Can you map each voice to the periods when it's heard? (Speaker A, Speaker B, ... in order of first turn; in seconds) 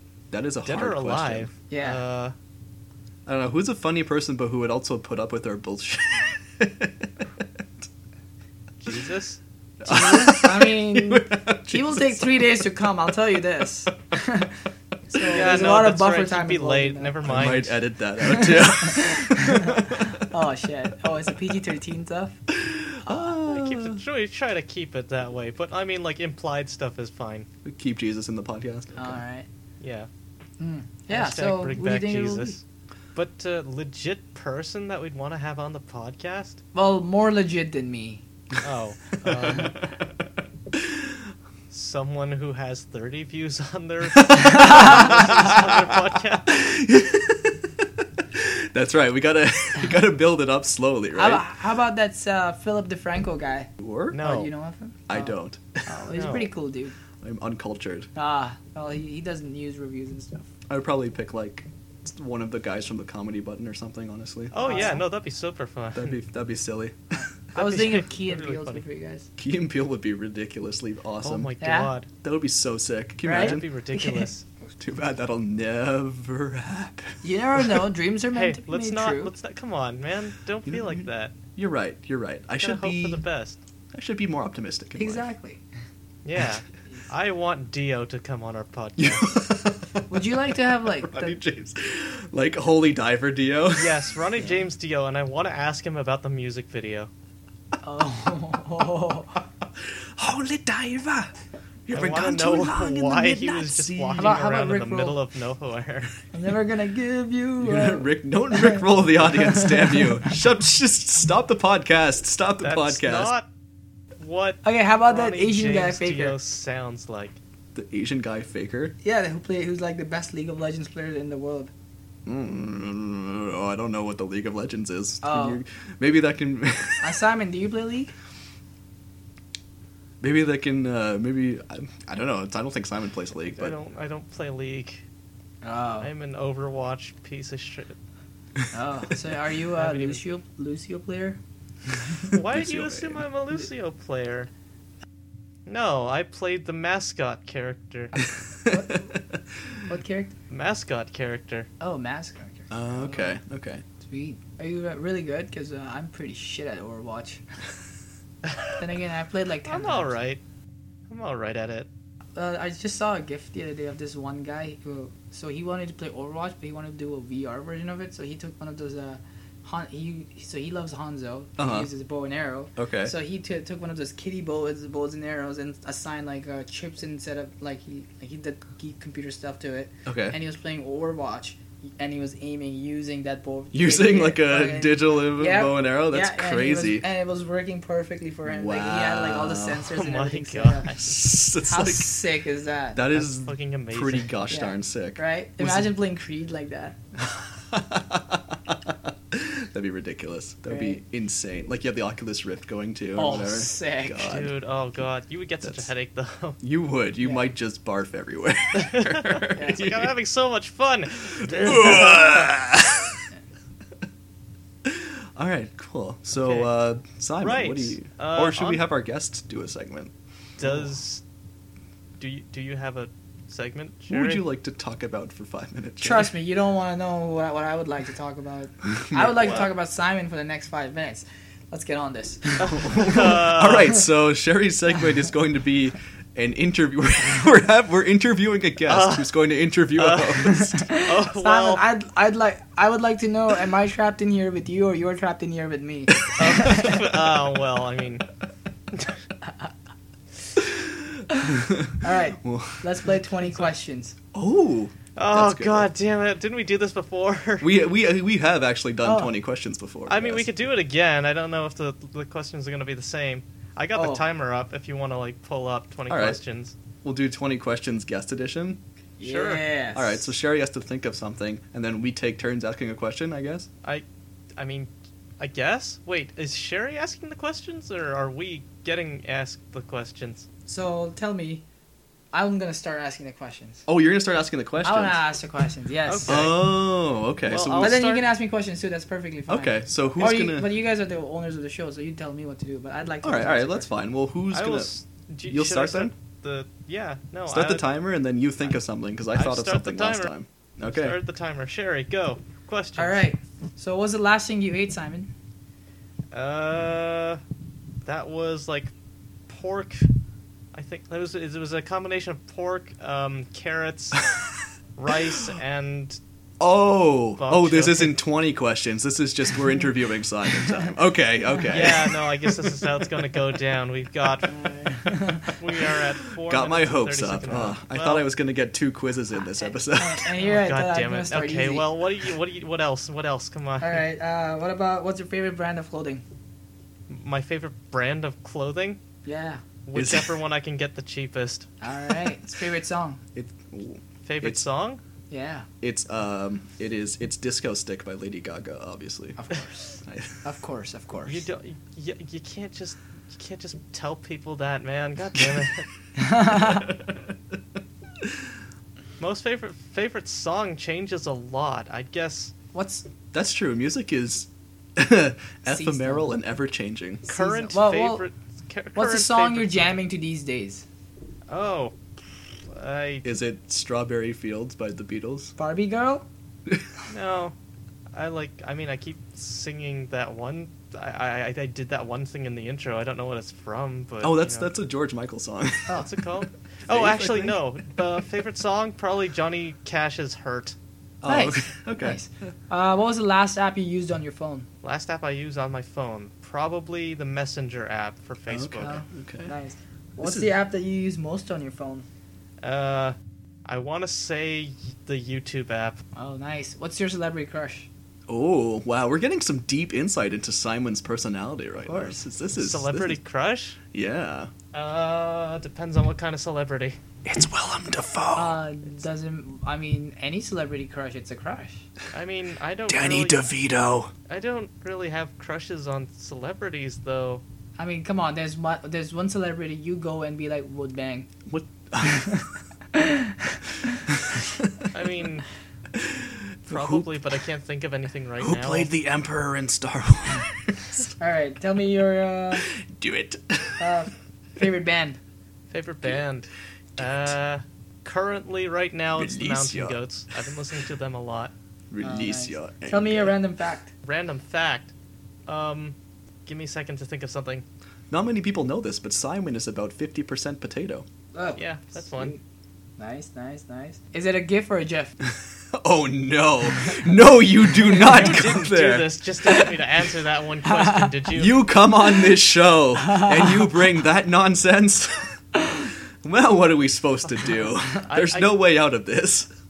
Speaker A: 0.3-1.5, 3.2-7.8, 9.8-12.4, 17.2-20.3, 22.5-24.0, 27.6-29.2, 39.3-39.8, 40.7-41.1, 44.2-51.4, 53.8-54.2, 55.1-55.9, 57.2-58.1, 60.7-64.8, 65.9-67.0, 69.4-71.5, 72.2-73.7, 74.8-77.8, 80.7-83.2, 83.9-85.2, 89.0-94.5, 99.8-101.3, 101.9-104.4, 107.6-113.3, 117.7-118.9, 122.2-127.2, 130.2-133.8, 142.3-143.2, 148.6-149.4, 152.7-153.8, 171.6-171.9, 172.8-173.1, 180.1-180.4, 183.7-187.1, 188.4-189.9, 191.0-192.2, 192.9-195.9, 197.4-204.5, 205.6-205.9, 206.6-210.1, 211.2-213.2, 214.8-220.9, 224.1-226.3, 228.9-229.5, 232.6-240.8, 246.2-247.2, 250.6-253.1, 254.3-255.9, 257.6-260.5, 266.1-266.4, 267.0-268.8, 269.9-273.7, 283.9-285.2, 286.2-288.0, 289.5-290.7, 293.2-294.9, 295.5-296.1, 297.5-301.2, 316.6-322.8, 326.4-330.3, 339.9-340.3, 343.3-344.6, 345.8-349.4, 350.0-350.4, 356.6-357.2, 363.3-367.2, 373.2-375.5, 384.2-386.1, 386.9-387.6, 391.2-392.2, 398.5-399.5, 400.2-400.5, 408.3-413.2, 413.9-414.5, 417.2-418.6, 422.9-424.1, 431.5-432.4, 434.1-434.9, 435.9-437.1, 438.4-441.1, 442.6-444.0, 447.0-447.3, 449.1-450.0, 451.9-453.3, 458.1-461.1, 465.2-469.8, 471.3-479.5
Speaker B: 0.6-2.3, 8.8-9.4, 15.3-17.8, 23.4-27.5, 29.8-30.1, 31.1-32.6, 33.1-36.6, 38.6-39.8, 41.7-46.5, 54.1-54.5, 56.1-56.5, 64.5-66.2, 67.5-68.8, 71.2-72.1, 73.3-74.4, 78.3-81.3, 82.6-83.6, 86.2-89.3, 93.8-97.1, 101.9-106.1, 112.6-113.5, 114.2-117.4, 133.5-135.0, 136.0-137.9, 139.7-140.2, 142.3-144.5, 145.7-148.1, 150.5-151.7, 159.7-160.4, 161.1-161.9, 189.9-191.2, 193.1-194.3, 204.2-206.6, 208.8-212.5, 216.4-216.7, 217.4-218.8, 220.6-221.2, 222.2-224.4, 229.4-229.7, 232.6-233.9, 238.9-239.3, 239.9-241.8, 246.4-248.2, 255.2-257.7, 260.1-266.8, 269.2-269.6, 274.6-280.4, 286.1-286.6, 287.4-288.3, 294.5-297.9, 299.3-300.3, 300.8-303.2, 306.3-307.4, 308.0-308.9, 309.5-310.1, 310.7-314.3, 314.9-316.2, 317.4-318.1, 321.7-324.5, 325.6-328.2, 330.3-334.0, 337.1-339.0, 339.9-341.7, 344.2-345.0, 351.2-355.9, 359.2-362.5, 367.3-370.0, 371.5-371.9, 372.6-373.2, 377.1-377.5, 378.1-384.7, 385.9-390.8, 394.8-398.9, 402.6-406.0, 412.6-413.8, 414.7-417.0, 422.1-423.5, 424.3-427.4, 434.9-435.5, 436.7-438.9, 445.7-451.5, 454.0-454.9, 455.5-457.6, 461.6-462.3, 467.9-471.6, 478.1-478.5
Speaker C: 1.7-2.0, 9.8-14.6, 15.1-17.6, 18.2-22.4, 23.0-23.4, 28.9-29.5, 30.6-32.5, 36.7-38.2, 44.3-45.3, 51.1-56.9, 58.1-60.5, 64.6-65.0, 67.2-69.3, 71.6-71.9, 73.2-74.3, 77.2-79.3, 85.0-85.6, 90.1-91.4, 97.8-99.4, 104.2-105.2, 106.3-108.8, 109.3-110.1, 114.6-116.3, 119.0-121.7, 125.2-125.6, 127.0-128.1, 135.6-136.1, 138.7-141.4, 148.2-149.1, 149.9-150.3, 151.8-153.4, 154.0-157.4, 158.8-160.1, 162.3-191.0, 191.5-193.0, 194.5-197.0, 200.7-201.0, 203.2-204.3, 207.2-207.5, 209.5-209.8, 226.0-233.2, 240.4-247.0, 251.3-254.1, 259.0-259.3, 263.9-264.2, 269.2-270.3, 280.7-281.6, 282.3-283.8, 284.8-286.4, 287.8-293.9, 302.9-305.3, 324.4-325.5, 329.9-331.9, 333.8-336.2, 339.2-339.6, 341.8-343.2, 345.3-345.7, 349.4-351.4, 356.2-356.9, 362.7-363.1, 365.6-366.3, 367.3-368.2, 368.9-370.8, 375.6-376.2, 391.2-394.7, 398.8-402.1, 406.1-407.9, 411.9-412.2, 418.4-421.9, 427.8-431.3, 432.0-434.0, 441.2-442.7, 443.8-445.2, 452.0-453.9, 461.3-462.4, 463.0-465.1, 470.7-471.1